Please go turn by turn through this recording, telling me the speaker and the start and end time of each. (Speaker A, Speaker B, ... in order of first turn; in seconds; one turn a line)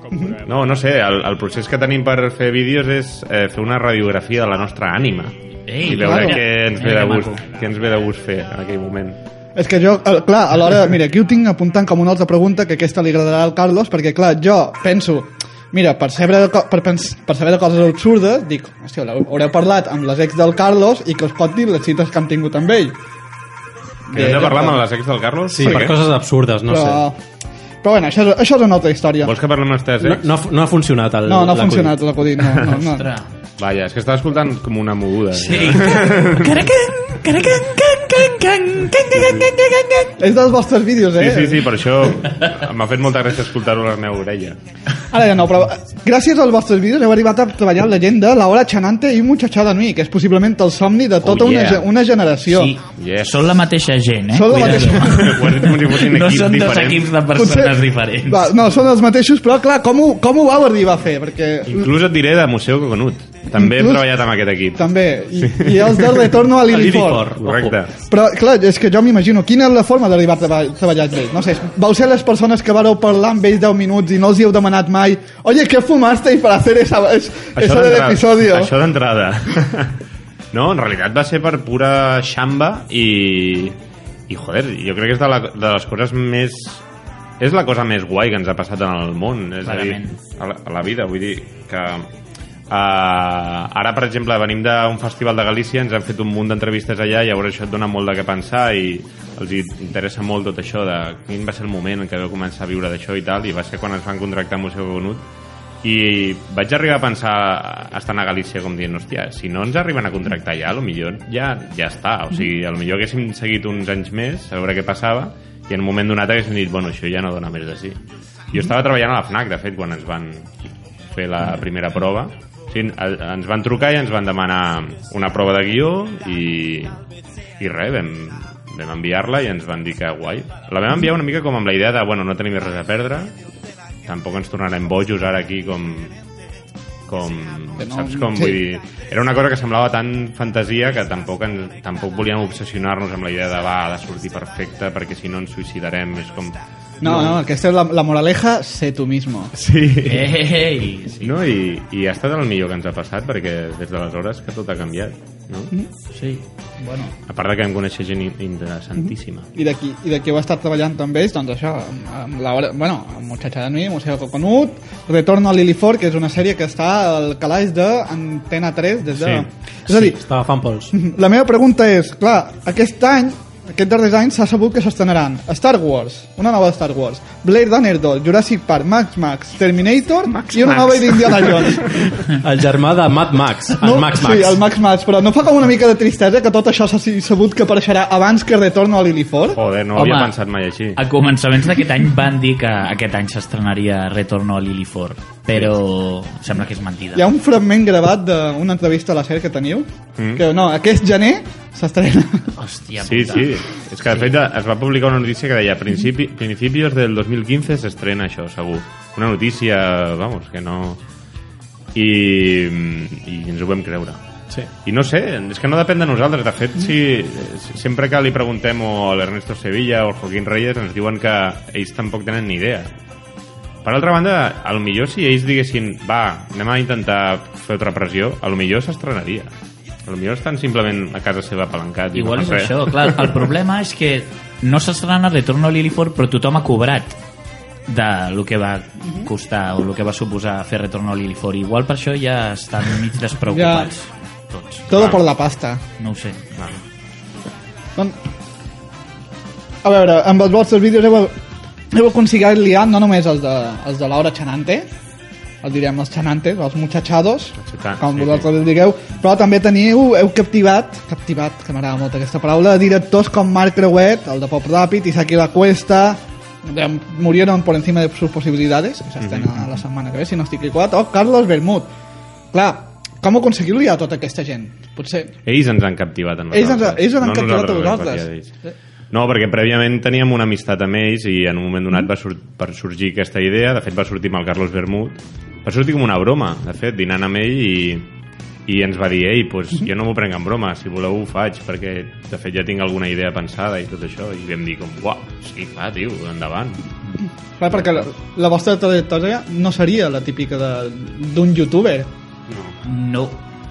Speaker A: 0.5-9.2
Speaker B: 5.7-7.5
Speaker C: 6.0-6.4
Speaker C: 9.6-23.0
Speaker C: 24.1-24.8
Speaker A: 24.1-26.0
Speaker D: 25.5-27.0
Speaker C: 25.6-25.9
Speaker C: 26.7-27.2
Speaker C: 27.8-29.4
Speaker A: 29.2-30.3
Speaker D: 30.0-32.0
Speaker C: 31.3-33.1
Speaker B: 32.8-33.3
Speaker A: 33.6-36.7
Speaker B: 35.4-40.1
Speaker A: 39.1-39.5
Speaker C: 40.2-41.7
Speaker A: 41.2-44.6
Speaker C: 45.1-52.7
Speaker A: 51.3-51.6
Speaker B: 51.3-51.8
Speaker B: 52.5-58.5
Speaker A: 53.0-53.5
Speaker C: 54.3-55.5
Speaker A: 54.5-57.1
Speaker C: 57.4-61.9
Speaker A: 61.7-66.3
Speaker C: 63.5-64.0
Speaker C: 64.8-67.3
Speaker D: 66.7-67.8
Speaker A: 67.4-67.9
Speaker C: 68.1-78.7
Speaker A: 77.6-80.0
Speaker A: 80.5-83.8
Speaker A: 84.3-86.8
Speaker A: 87.4-92.1
Speaker B: 89.6-90.2
Speaker A: 92.7-105.2
Speaker A: 105.8-118.0
Speaker A: 118.5-120.5
Speaker A: 121.1-127.0
Speaker A: 127.6-133.3
Speaker A: 134.1-136.1
Speaker A: 137.1-147.4
Speaker C: 137.8-138.6
Speaker C: 147.0-149.5
Speaker A: 149.5-150.4
Speaker B: 150.1-151.5
Speaker A: 151.2-155.7
Speaker B: 156.1-157.2
Speaker A: 157.3-159.5
Speaker C: 159.0-170.2
Speaker D: 169.9-170.9
Speaker C: 170.9-181.8
Speaker D: 182.4-184.6
Speaker C: 183.8-189.6
Speaker A: 189.6-191.0
Speaker B: 189.9-190.3
Speaker B: 191.0-197.3
Speaker A: 195.5-195.8
Speaker C: 197.2-202.5
Speaker A: 200.2-200.4
Speaker B: 202.6-204.3
Speaker A: 203.0-211.0
Speaker A: 211.9-214.2
Speaker A: 214.8-222.9
Speaker A: 223.8-229.5
Speaker A: 230.1-233.5
Speaker B: 232.1-237.2
Speaker B: 237.9-244.9
Speaker C: 243.5-243.9
Speaker C: 244.9-245.8
Speaker A: 244.9-245.2
Speaker B: 246.0-246.4
Speaker C: 249.8-251.3
Speaker C: 251.9-254.9
Speaker C: 255.6-271.9
Speaker A: 257.6-258.5
Speaker A: 269.2-269.6
Speaker C: 272.5-275.3
Speaker A: 275.4-278.5
Speaker C: 276.5-278.3
Speaker A: 279.1-288.1
Speaker A: 288.7-296.8
Speaker C: 297.6-302.1
Speaker A: 297.8-298.0
Speaker A: 302.5-302.8
Speaker B: 302.8-303.4